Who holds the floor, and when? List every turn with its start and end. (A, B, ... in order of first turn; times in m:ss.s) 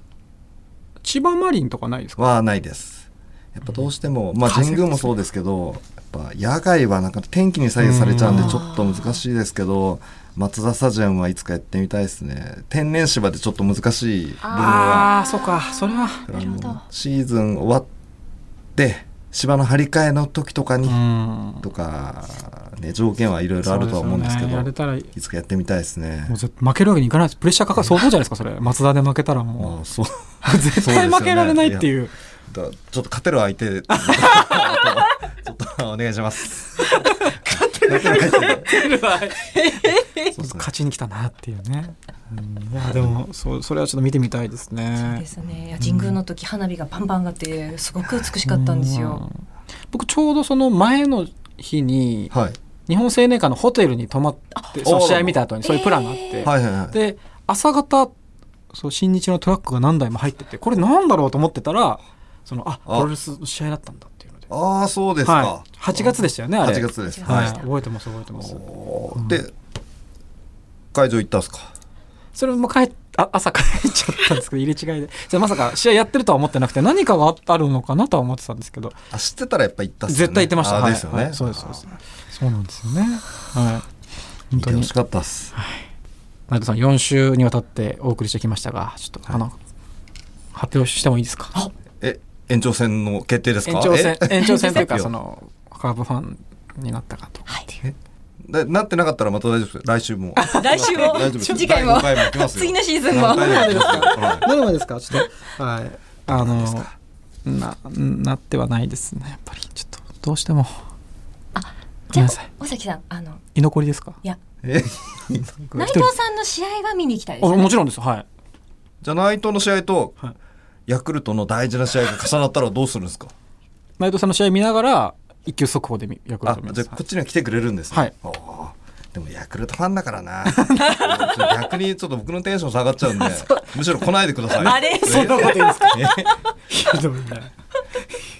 0:01.0-0:02.2 A
0:02.2-0:15.1 B
0:04.4-0:05.1 A
0:07.8-0:08.6 A
0:08.4-0:09.2 C
0:14.4-0:16.8 C
0:14.5-0:16.3 A
0:16.3-0:17.9 B
0:18.8-0:21.0 B
0:20.9-0:21.6 A
0:21.6-0:26.4 B
0:23.6-0:25.1 A
0:26.3-0:29.8 A
0:29.6-0:31.9 B
0:30.4-0:32.1 A
0:32.5-0:38.7 B
0:33.9-0:34.9 A
0:37.5-0:40.3 C
0:37.9-0:45.2 A
0:40.4-0:40.7 B
0:45.0-0:49.2 C
0:45.8-0:46.2 A
0:48.4-0:49.3 A
0:49.9-0:52.3 A
0:52.3-0:52.6 B
0:52.9-0:58.1 A
0:54.8-0:55.4 B
0:55.6-0:56.5 C
0:56.4-0:57.0 B
0:58.7-1:04.5 A
1:04.5-1:07.6 B
1:05.2-1:08.6 A
1:07.0-1:07.7 C
1:08.4-1:09.5 B
1:09.2-1:09.4 A
1:10.9-1:11.7 B
1:12.4-1:19.0 A
1:19.1-1:21.9 B
1:20.1-1:23.9 A
1:24.5-1:24.9 A
1:24.6-1:25.5 B
1:25.5-1:25.8 A
1:26.5-1:29.6 A
1:30.5-1:31.6 A
1:32.0-1:35.1 B
1:33.6-1:37.9 A
1:34.4-1:34.9 C
1:38.4-1:44.5 B
1:40.4-1:40.9 A
1:40.5-1:44.3 C
1:43.1-1:46.9 A
1:46.3-1:46.9 B
1:47.4-1:50.9 A
1:51.6-1:53.4 C
1:52.1-1:52.5 A
1:53.6-1:54.2 A
1:54.6-1:55.6 B
1:55.7-1:56.1 A
1:55.8-1:57.7 C
1:57.4-1:58.2 A
1:59.0-2:00.2 B
2:00.9-2:03.3 B
2:04.0-2:07.0 A
2:06.4-2:16.4 B
2:10.5-2:11.2 A
2:13.1-2:13.8 A
2:14.5-2:16.4 C
2:14.6-2:16.2 A
2:16.7-2:17.5 A